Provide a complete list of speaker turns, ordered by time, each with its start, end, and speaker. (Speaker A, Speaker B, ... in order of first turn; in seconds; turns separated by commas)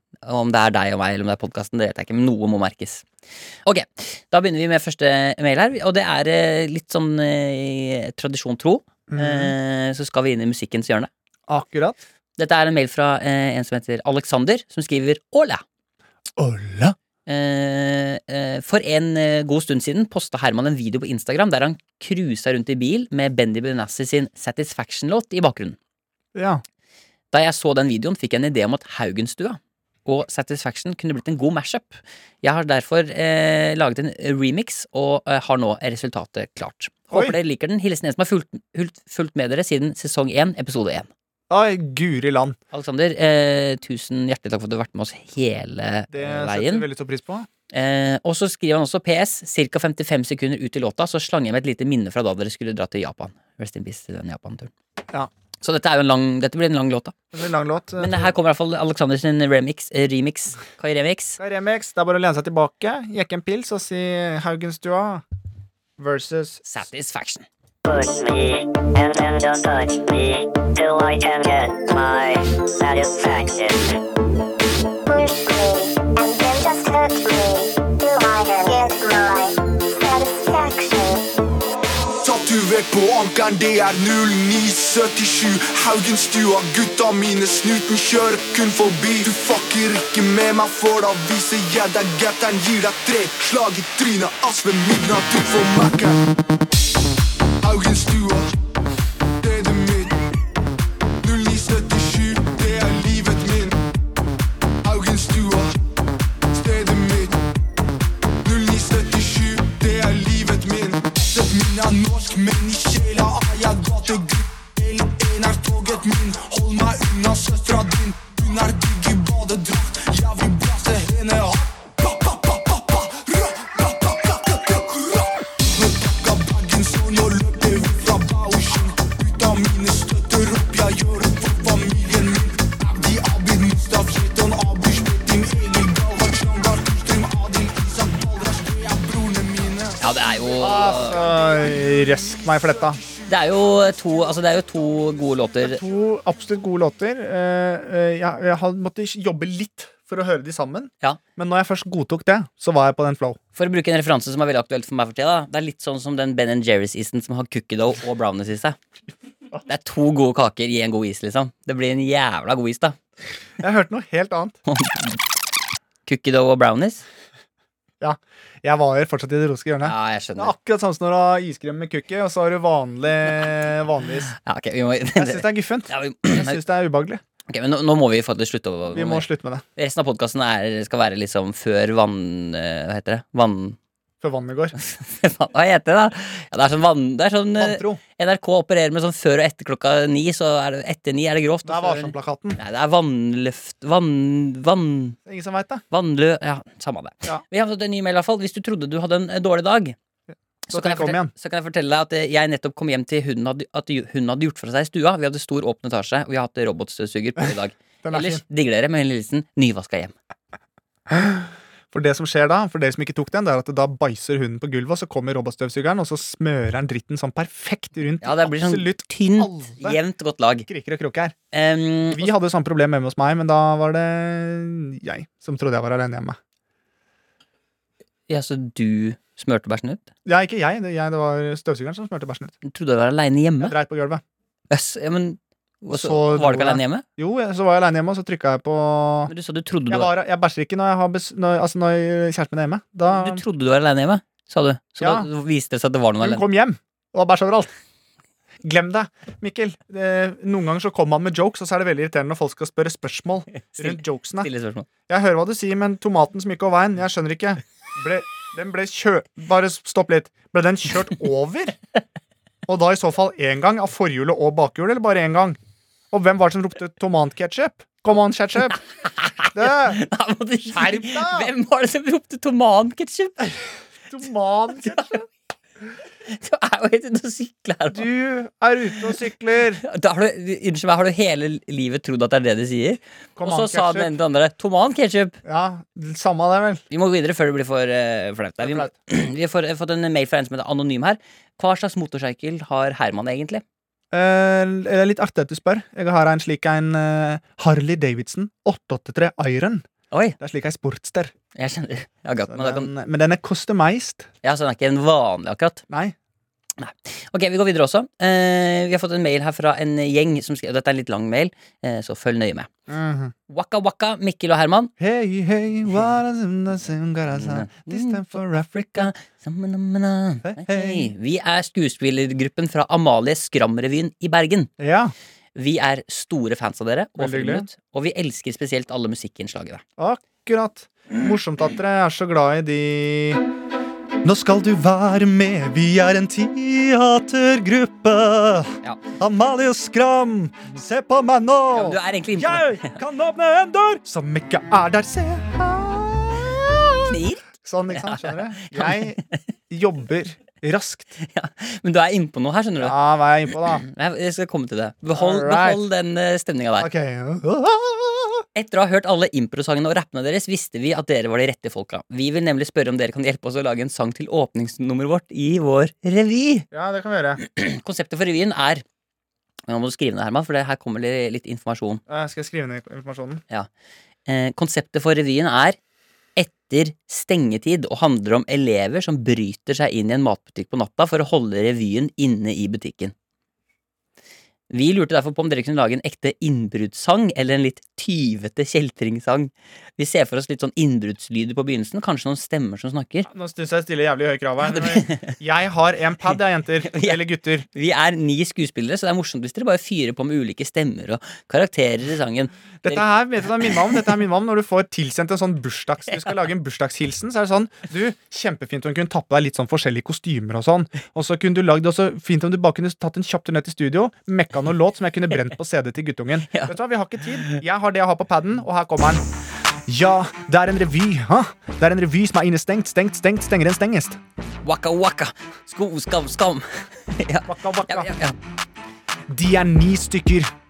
Speaker A: 0.2-3.0, Speaker A: 3.6-11.1, Speaker B: 9.1-9.5, Speaker B: 11.5-12.0, Speaker A: 12.4-15.6, Speaker B: 16.4-16.9, Speaker A: 17.2-25.8, Speaker B: 26.3-26.6, Speaker A: 27.3-41.1, Speaker B: 41.5-42.6, Speaker A: 42.7-46.9, Speaker B: 46.1-47.5, Speaker A: 47.7-54.7, Speaker A: 55.6-57.1, Speaker B: 57.3-58.3, Speaker A: 58.0-61.4, Speaker B: 61.4-65.2, Speaker B: 66.0-66.6, Speaker A: 66.6-67.5, Speaker C: 67.8-74.0, Speaker D: 75.0-81.2, Speaker E: 82.2-96.3, Speaker E: 97.6-98.5, Speaker E: 99.4-100.2, Speaker E: 101.2-103.8, Speaker E: 104.8-105.8, Speaker E: 106.5-107.4, Speaker E: 108.4-143.3, Speaker A: 140.0-141.2, Speaker B: 140.6-143.0, Speaker A: 143.2-145.8, Speaker B: 145.6-153.4, Speaker A: 153.5-158.8, Speaker A: 159.7-163.0, Speaker B: 163.6-164.6, Speaker A: 164.7-165.2, Speaker A: 166.1-167.0, Speaker B: 168.0-174.3, Speaker A: 169.8-170.5, Speaker A: 174.3-176.6, Speaker B: 175.2-177.2, Speaker A: 177.5-183.8, Speaker B: 178.9-179.6, Speaker B: 184.2-184.8, Speaker A: 184.8-195.2, Speaker B: 187.6-188.0, Speaker B: 191.6-192.6, Speaker B: 195.2-195.8, Speaker A: 195.9-199.9, Speaker A: 200.7-210.1, Speaker B: 200.7-201.3, Speaker B: 208.0-208.4, Speaker B: 211.1-220.0, Speaker A: 218.2-220.7, Speaker B: 220.7-221.3, Speaker A: 221.5-222.3, Speaker B: 222.1-226.4, Speaker A: 228.3-230.1, Speaker B: 230.2-232.5, Speaker A: 232.6-233.8, Speaker B: 233.6-234.2, Speaker A: 234.7-237.0, Speaker B: 235.9-239.3, Speaker A: 239.3-240.1, Speaker B: 239.9-243.4, Speaker A: 243.1-246.4, Speaker B: 245.0-245.3, Speaker B: 246.2-247.7, Speaker B: 248.6-254.5, Speaker A: 253.8-254.9, Speaker B: 255.1-261.8, Speaker B: 262.6-265.6, Speaker B: 266.1-268.8, Speaker A: 269.0-273.5, Speaker B: 269.5-270.0, Speaker B: 270.6-271.5, Speaker B: 274.1-275.2, Speaker A: 276.3-278.1, Speaker B: 277.9-279.8, Speaker A: 279.8-285.4, Speaker B: 283.4-284.1, Speaker B: 285.4-286.8, Speaker A: 286.9-293.6, Speaker B: 288.6-288.9, Speaker B: 294.1-299.8, Speaker B: 300.4-301.3, Speaker A: 301.5-302.9, Speaker B: 302.5-304.3, Speaker A: 304.4-305.8, Speaker B: 305.9-306.1, Speaker A: 306.8-312.7, Speaker B: 312.9-313.3, Speaker A: 313.5-314.9, Speaker B: 315.0-319.1, Speaker A: 317.3-324.7, Speaker B: 320.4-321.1, Speaker B: 324.8-325.1, Speaker A: 325.5-329.8, Speaker B: 327.2-327.7, Speaker B: 330.0-333.4, Speaker B: 334.2-351.1, Speaker A: 341.7-343.0, Speaker A: 347.0-349.4, Speaker A: 351.2-352.9, Speaker B: 352.8-353.8, Speaker A: 353.5-356.9, Speaker B: 355.1-355.8, Speaker B: 356.8-358.4, Speaker A: 358.5-366.6, Speaker B: 366.7-367.4, Speaker A: 367.4-368.8, Speaker A: 369.7-372.0, Speaker B: 372.1-373.4, Speaker A: 374.2-375.8, Speaker A: 376.4-383.1, Speaker A: 384.7-393.3, Speaker B: 393.2-397.7, Speaker A: 394.6-395.3, Speaker A: 396.8-403.1, Speaker B: 402.8-419.2, Speaker A: 416.5-416.8, Speaker B: 419.9-424.2, Speaker A: 424.6-428.4, Speaker B: 427.4-428.1, Speaker B: 429.3-430.5